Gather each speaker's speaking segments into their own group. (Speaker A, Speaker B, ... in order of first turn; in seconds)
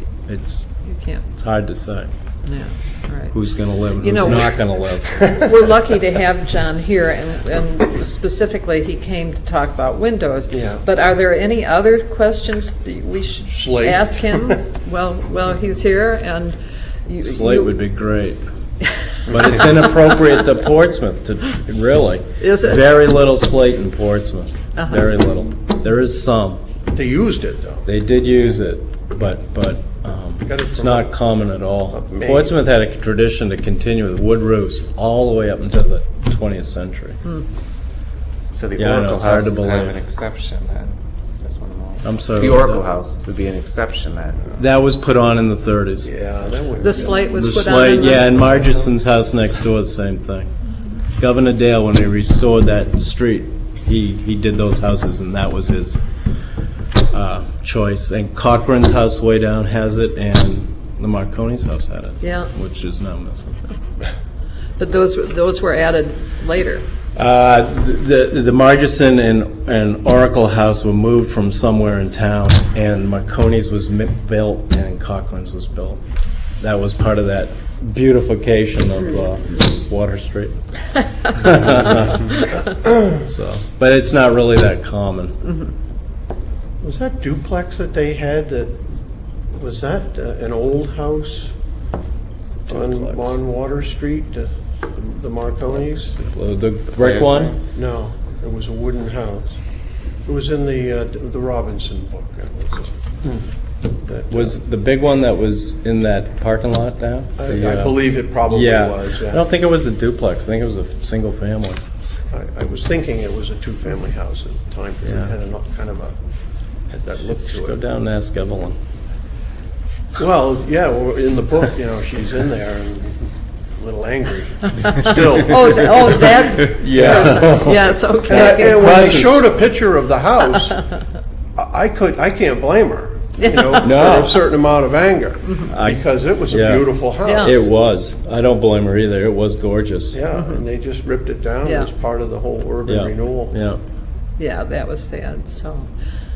Speaker A: 0.3-0.7, 1.4-2.1, 3.3-5.3, 17.2-18.4, 19.3-26.6, 27.9-37.2, 38.8-40.0, 42.0-42.9, 44.6-46.1, 47.2-50.5, 51.2-56.0, 57.1-63.6, 67.2-76.0, 76.6-80.6, 81.3-85.5, 92.7-93.4, 95.7-97.6, 104.3-111.8, 115.0-115.3, 117.3-118.8, 126.7-127.8, 128.3-129.5, 133.8-134.4, 135.7-140.2, 142.9-143.8
Speaker B: 0.8-1.2, 2.5-3.4, 4.0-4.5, 5.1-17.8, 22.4-22.8, 24.8-25.1, 46.8-48.4, 62.2-62.5, 64.8-66.9, 124.8-129.2, 133.4-134.2, 137.2-137.5, 140.4-140.6, 141.6-141.9, 144.4-145.9
Speaker C: 10.5-10.8, 13.5-14.6, 26.9-27.9, 30.4-31.1, 31.9-32.5, 46.0-47.5, 48.2-48.9, 86.8-88.8, 89.5-91.5, 92.7-96.2, 97.7-99.6, 100.3-103.5, 104.1-104.6, 107.4-109.4, 112.3-116.2, 116.9-117.8, 120.2-130.8, 131.6-137.5, 140.1-143.6
Speaker D: 38.5-44.5, 46.6-47.0, 97.0-97.5